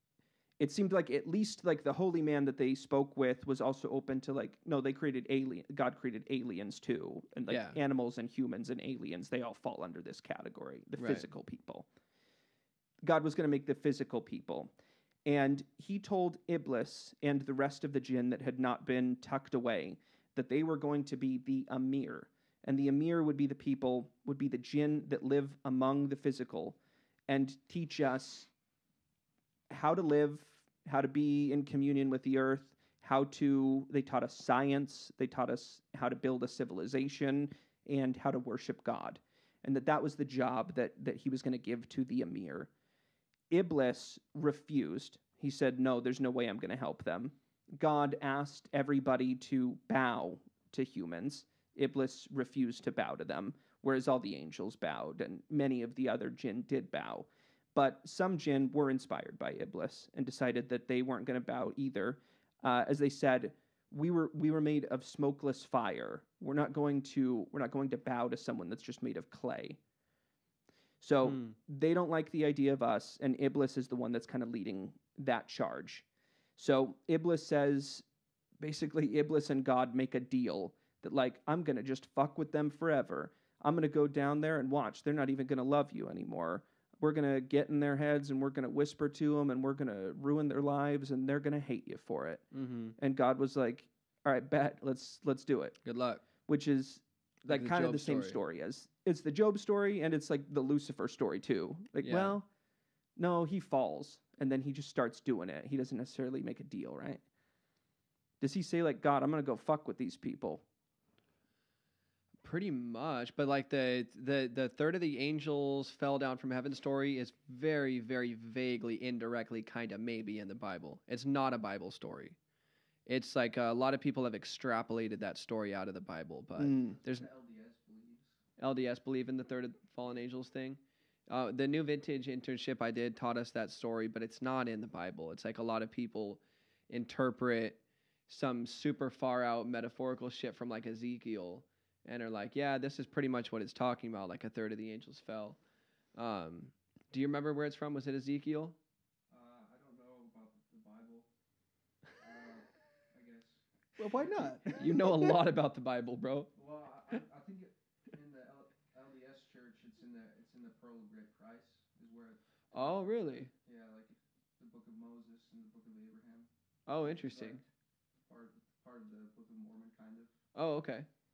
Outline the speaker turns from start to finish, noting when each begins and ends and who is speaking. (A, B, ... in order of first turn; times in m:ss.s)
0:00.6-0:11.9 A
0:07.5-0:07.8 B
0:11.0-0:11.2 B
0:13.0-0:14.7 A
0:15.2-0:26.8 A
0:27.3-0:28.5 A
0:29.7-0:42.7 A
0:43.5-1:09.8 A
1:11.0-1:16.0 A
1:11.2-1:11.5 B
1:16.6-1:18.0 A
1:18.6-1:32.4 A
1:32.5-1:33.0 B
1:33.0-1:35.8 A
1:35.8-1:36.2 B
1:36.4-1:42.5 A
1:37.5-1:38.4 B
1:42.0-1:42.3 B
1:43.2-1:47.2 A
1:48.4-1:50.6 A
1:52.4-2:02.4 B
2:03.1-2:07.3 B
2:06.6-2:07.0 A
2:07.0-2:08.3 C
2:08.6-2:25.6 B
2:26.1-2:28.8 B
2:29.3-2:31.3 C
2:32.2-2:34.8 C
2:34.0-2:35.3 A
2:34.8-2:36.5 B
2:36.5-2:42.5 C
2:42.7-2:43.5 B
2:43.6-2:46.5 C
2:46.9-2:47.6 B
2:47.0-2:47.6 C
2:48.2-2:50.4 C
2:50.5-2:51.1 B